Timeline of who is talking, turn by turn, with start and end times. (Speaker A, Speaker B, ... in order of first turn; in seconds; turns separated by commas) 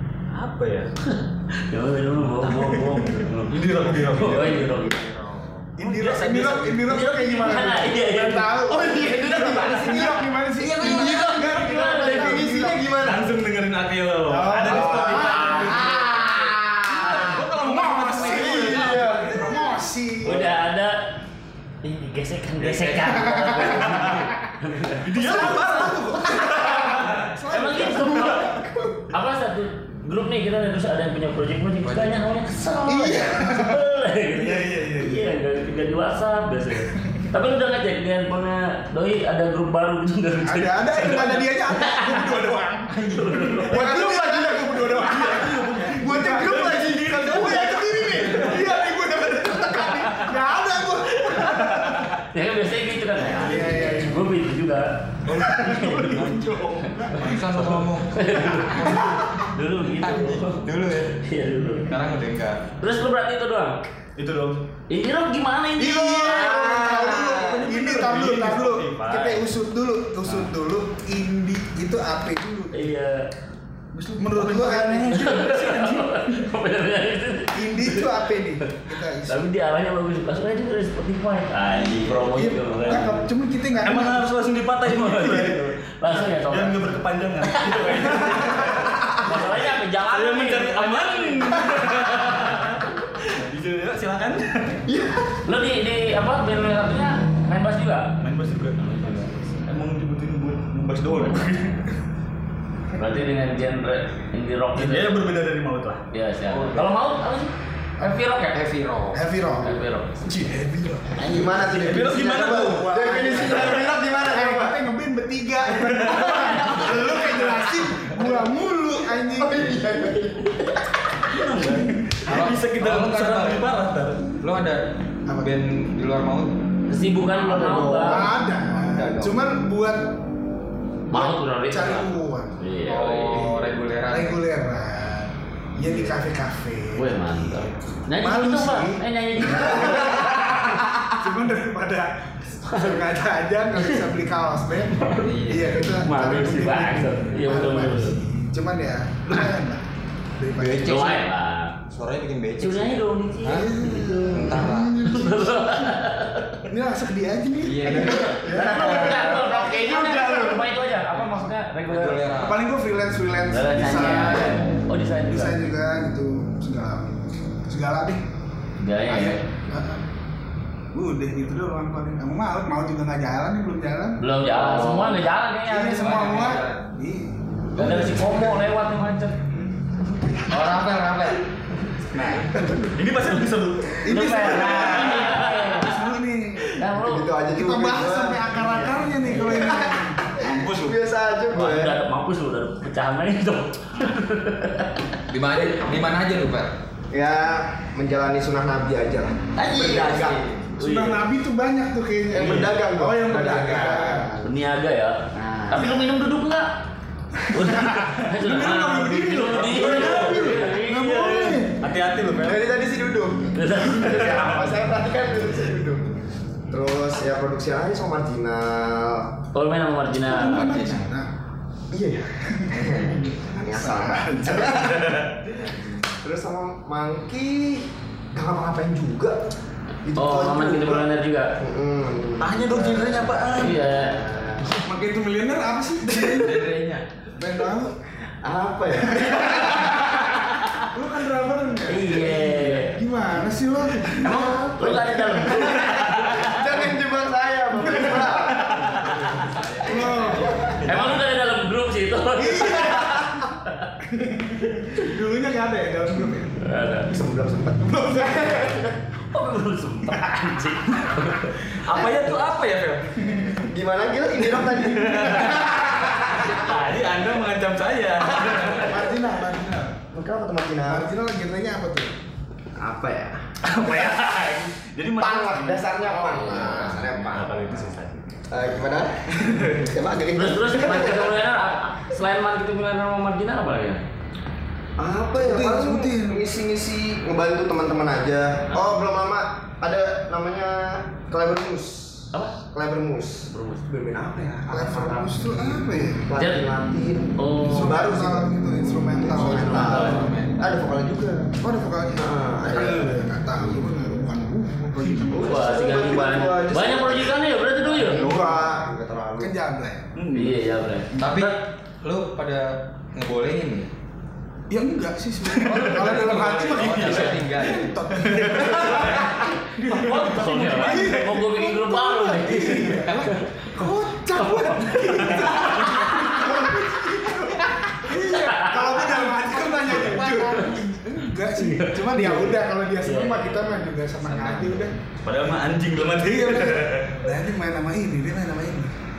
Speaker A: 0.3-0.9, Speaker B: 1.0-5.0, Speaker A: 2.4-4.7, Speaker C: 4.8-5.7, Speaker D: 5.8-12.9, Speaker A: 5.8-6.9, Speaker B: 6.9-10.0, Speaker E: 8.7-13.3, Speaker B: 10.8-12.5, Speaker A: 13.0-16.2, Speaker D: 14.3-20.4, Speaker E: 14.7-15.7, Speaker B: 14.7-15.9, Speaker A: 16.9-19.3, Speaker E: 18.2-19.7, Speaker B: 20.2-21.0, Speaker B: 21.8-25.0, Speaker A: 22.6-23.0, Speaker D: 23.3-24.2, Speaker A: 23.6-24.3, Speaker A: 25.0-27.4, Speaker D: 25.1-28.8, Speaker B: 27.5-28.5, Speaker B: 29.1-42.3, Speaker C: 31.8-32.2, Speaker D: 32.8-33.9, Speaker A: 34.5-35.1, Speaker D: 40.4-52.1, Speaker B: 43.1-43.9, Speaker E: 43.7-48.5, Speaker A: 45.0-48.8, Speaker A: 49.9-50.3, Speaker A: 51.3-52.1, Speaker B: 52.3-54.9, Speaker D: 53.3-54.3, Speaker A: 55.3-57.3, Speaker D: 55.3-57.3, Speaker C: 57.1-61.1, Speaker B: 58.1-60.6, Speaker A: 60.6-61.0, Speaker B: 61.2-61.9, Speaker C: 61.9-62.6, Speaker B: 62.8-63.8, Speaker A: 64.2-64.6, Speaker B: 64.9-67.0, Speaker D: 65.8-72.9, Speaker E: 66.2-67.7, Speaker A: 67.3-69.4, Speaker B: 72.7-73.3, Speaker A: 73.9-76.5, Speaker D: 74.2-75.5, Speaker B: 75.1-78.2, Speaker D: 77.5-79.4, Speaker B: 79.2-83.2, Speaker D: 82.3-84.3, Speaker A: 83.8-94.8, Speaker B: 84.8-86.8, Speaker B: 87.5-91.7, Speaker E: 94.9-95.3, Speaker B: 95.4-98.1, Speaker A: 98.2-101.9, Speaker B: 98.8-99.6, Speaker B: 102.9-105.2, Speaker A: 104.7-106.0, Speaker B: 106.1-108.5, Speaker C: 108.4-109.3, Speaker D: 109.1-111.7, Speaker B: 109.5-110.2, Speaker B: 111.2-111.7, Speaker E: 111.2-114.8, Speaker A: 111.4-113.9, Speaker D: 112.2-119.8, Speaker A: 115.8-116.9, Speaker E: 119.4-120.8, Speaker A: 121.3-124.2, Speaker C: 122.2-123.7, Speaker C: 124.4-126.5, Speaker D: 125.3-125.6, Speaker B: 126.9-128.3, Speaker E: 127.3-129.4, Speaker D: 127.7-130.2, Speaker D: 131.1-132.6, Speaker B: 131.1-133.5, Speaker C: 132.8-134.4, Speaker D: 133.4-149.8, Speaker B: 136.9-140.4, Speaker B: 142.6-143.0, Speaker C: 145.2-145.9, Speaker B: 146.0-148.2, Speaker D: 150.4-151.2, Speaker C: 150.6-151.2, Speaker B: 150.7-151.8, Speaker C: 151.9-153.7, Speaker B: 152.6-156.6, Speaker D: 153.4-156.0, Speaker C: 154.3-155.1, Speaker D: 156.7-160.7, Speaker C: 157.6-158.5, Speaker B: 158.3-162.2, Speaker E: 158.4-159.5, Speaker C: 161.9-162.6, Speaker D: 162.4-167.1, Speaker B: 163.5-165.6, Speaker D: 167.7-168.2, Speaker B: 168.8-169.4, Speaker D: 169.1-170.0, Speaker D: 170.9-178.6, Speaker B: 174.2-176.5, Speaker C: 174.7-175.1, Speaker C: 175.8-176.9, Speaker B: 177.8-179.3, Speaker C: 180.4-181.4, Speaker D: 182.1-182.7, Speaker A: 182.9-185.7, Speaker D: 184.0-186.8, Speaker B: 184.0-186.0, Speaker B: 186.7-187.3, Speaker E: 186.9-188.5, Speaker D: 187.5-190.3, Speaker B: 188.6-189.7, Speaker E: 189.3-192.0, Speaker A: 190.4-191.0, Speaker B: 191.5-194.9, Speaker C: 195.3-196.7, Speaker E: 197.1-200.4, Speaker B: 199.6-201.2, Speaker A: 199.8-200.3, Speaker D: 200.8-204.4, Speaker E: 202.3-204.5, Speaker A: 202.4-202.7, Speaker B: 204.4-206.7, Speaker E: 205.3-206.0, Speaker B: 207.5-211.6, Speaker D: 207.6-211.8, Speaker A: 209.3-210.7, Speaker A: 211.3-212.8, Speaker E: 212.4-216.1, Speaker B: 213.5-214.4, Speaker A: 214.2-214.7, Speaker E: 216.7-219.3, Speaker B: 219.5-220.9, Speaker D: 220.2-221.3, Speaker E: 221.9-225.3, Speaker D: 222.6-225.1, Speaker A: 225.0-225.3, Speaker C: 225.5-226.0, Speaker E: 226.2-229.4, Speaker E: 230.0-231.1, Speaker B: 230.1-231.5, Speaker E: 231.6-234.7, Speaker A: 232.4-233.8, Speaker B: 233.5-234.2, Speaker D: 234.8-236.6, Speaker C: 236.2-237.0, Speaker D: 237.3-237.9, Speaker E: 238.4-240.1, Speaker D: 239.0-240.3, Speaker D: 240.9-244.5, Speaker B: 241.9-243.0, Speaker B: 244.2-246.6, Speaker E: 244.2-248.9, Speaker D: 247.8-251.1, Speaker C: 249.1-250.7, Speaker E: 250.4-250.8, Speaker B: 250.8-253.2, Speaker D: 252.3-253.3, Speaker D: 254.1-256.6, Speaker B: 256.6-257.1, Speaker E: 257.1-258.9, Speaker D: 257.8-258.9, Speaker B: 259.3-261.7, Speaker A: 261.7-263.3, Speaker E: 261.9-262.3, Speaker E: 263.5-266.6, Speaker A: 264.9-269.0, Speaker D: 265.1-266.1, Speaker D: 268.7-270.0, Speaker E: 270.1-271.1, Speaker D: 270.9-272.1, Speaker E: 272.8-273.5, Speaker A: 273.6-278.2, Speaker E: 275.1-277.9, Speaker B: 276.3-277.0, Speaker E: 278.5-281.4, Speaker A: 279.4-279.9, Speaker B: 280.3-284.0, Speaker E: 285.0-303.1, Speaker D: 285.4-286.5, Speaker B: 288.7-289.0, Speaker B: 293.5-293.8, Speaker D: 294.7-296.3, Speaker B: 296.4-296.6, Speaker B: 297.4-298.1, Speaker D: 297.6-300.2, Speaker B: 299.3-300.3, Speaker C: 299.6-300.7, Speaker D: 301.6-305.9, Speaker E: 305.2-309.5, Speaker B: 305.4-308.2, Speaker D: 308.1-308.7, Speaker A: 308.2-308.6, Speaker D: 309.4-310.1, Speaker A: 310.1-310.6, Speaker B: 310.3-311.5, Speaker C: 311.2-313.9, Speaker D: 314.7-334.9, Speaker C: 315.7-318.0, Speaker A: 316.8-317.3, Speaker A: 318.1-321.2, Speaker B: 319.8-323.4, Speaker B: 324.4-326.4, Speaker B: 328.4-328.8, Speaker B: 330.0-330.7, Speaker B: 331.5-333.4, Speaker C: 334.2-334.9, Speaker A: 335.2-337.2, Speaker D: 336.1-338.9